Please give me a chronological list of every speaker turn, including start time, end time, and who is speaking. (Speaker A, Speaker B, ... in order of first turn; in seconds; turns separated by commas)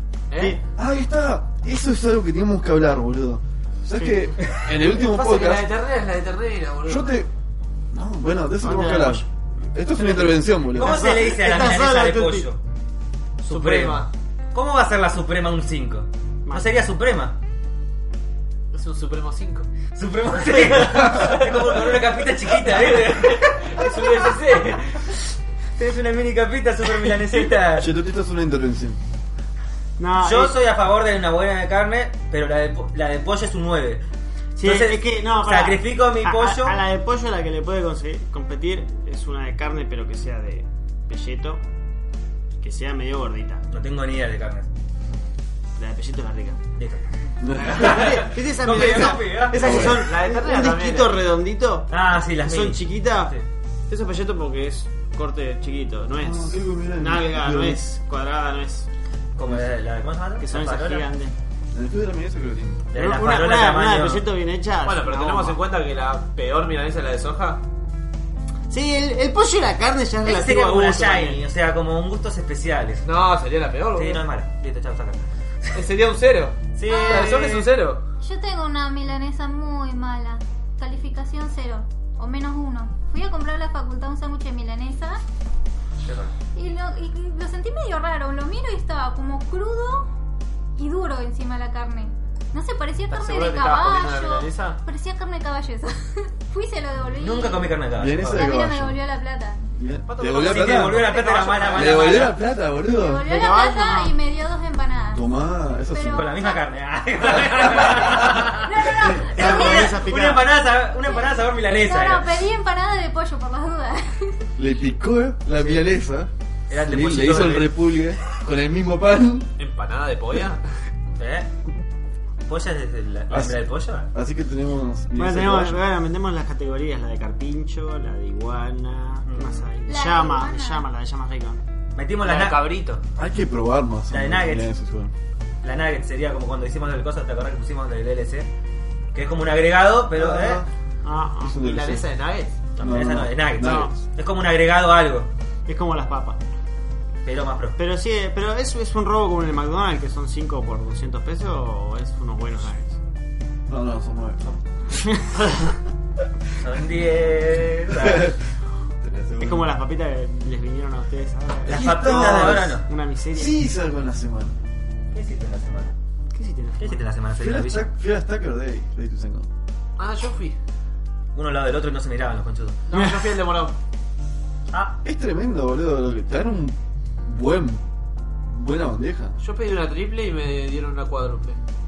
Speaker A: 0.3-0.6, Speaker B: 0.3-0.6, Speaker C: 0.8-5.7, Speaker B: 4.0-4.3, Speaker A: 4.7-7.1, Speaker C: 6.8-7.3, Speaker C: 7.9-11.1, Speaker B: 8.6-9.2, Speaker B: 10.0-12.5, Speaker D: 10.7-12.6, Speaker D: 13.4-17.4, Speaker A: 13.4-14.1, Speaker B: 16.4-16.8, Speaker A: 18.7-19.7, Speaker D: 19.9-24.3, Speaker A: 20.9-25.1, Speaker C: 21.0-21.4, Speaker D: 25.8-27.9, Speaker C: 27.8-29.0, Speaker B: 30.0-30.6, Speaker D: 30.2-34.0, Speaker B: 34.5-41.6, Speaker D: 34.6-36.8, Speaker B: 42.6-43.6, Speaker D: 43.7-44.7, Speaker B: 45.8-46.6, Speaker D: 46.8-47.0, Speaker C: 47.4-48.2, Speaker B: 47.6-51.9, Speaker D: 47.7-49.9, Speaker C: 49.5-50.0, Speaker A: 49.6-51.2, Speaker D: 51.9-53.4, Speaker B: 52.4-53.3, Speaker B: 53.9-58.9, Speaker C: 56.2-57.8, Speaker D: 59.4-61.1, Speaker B: 60.4-61.3, Speaker C: 61.7-62.9, Speaker D: 62.9-64.2, Speaker B: 62.9-65.6, Speaker A: 64.8-67.6, Speaker B: 68.7-71.4, Speaker D: 70.2-73.0, Speaker A: 73.0-74.2, Speaker D: 73.9-75.8, Speaker A: 75.7-78.0, Speaker D: 76.8-77.7, Speaker E: 76.9-77.3, Speaker E: 78.2-85.2, Speaker D: 86.0-86.3, Speaker E: 86.5-90.1, Speaker E: 90.8-99.6, Speaker A: 93.1-94.8, Speaker D: 97.2-98.5, Speaker C: 98.0-99.0, Speaker C: 99.8-101.1, Speaker A: 100.1-102.2, Speaker D: 100.4-102.4, Speaker C: 101.7-103.3, Speaker E: 102.9-105.2, Speaker B: 103.2-104.2, Speaker C: 105.1-106.3, Speaker E: 105.9-106.7, Speaker D: 106.1-112.4, Speaker E: 108.3-110.0, Speaker B: 109.1-110.5, Speaker E: 111.0-114.5, Speaker C: 114.6-119.5, Speaker D: 116.7-117.8, Speaker A: 119.6-120.6, Speaker D: 121.2-121.5, Speaker D: 122.5-124.1, Speaker C: 123.3-125.8, Speaker B: 125.2-131.6, Speaker D: 129.2-129.7, Speaker E: 129.8-130.8, Speaker D: 131.9-132.7, Speaker A: 132.2-133.0, Speaker C: 133.2-135.1, Speaker D: 134.1-134.7, Speaker D: 135.6-138.5, Speaker D: 139.1-140.6, Speaker C: 140.1-140.7, Speaker B: 141.0-141.6, Speaker C: 141.4-142.1, Speaker A: 141.6-142.6, Speaker D: 142.8-145.3, Speaker C: 142.8-143.9, Speaker B: 143.6-143.9, Speaker B: 145.7-146.4, Speaker D: 147.2-147.8, Speaker B: 147.8-153.0, Speaker C: 153.7-155.0, Speaker B: 155.1-155.6, Speaker D: 156.6-158.4, Speaker C: 157.9-158.4, Speaker C: 159.0-159.7, Speaker B: 159.4-163.6, Speaker C: 161.7-162.8, Speaker D: 161.7-162.8, Speaker C: 163.3-164.6, Speaker D: 165.1-165.9, Speaker B: 166.3-167.1, Speaker D: 166.8-167.9, Speaker C: 167.4-169.5, Speaker A: 170.0-170.6, Speaker D: 171.3-172.8, Speaker A: 172.9-173.8, Speaker D: 174.7-175.0, Speaker C: 175.0-177.8, Speaker C: 178.4-179.4, Speaker A: 179.4-181.6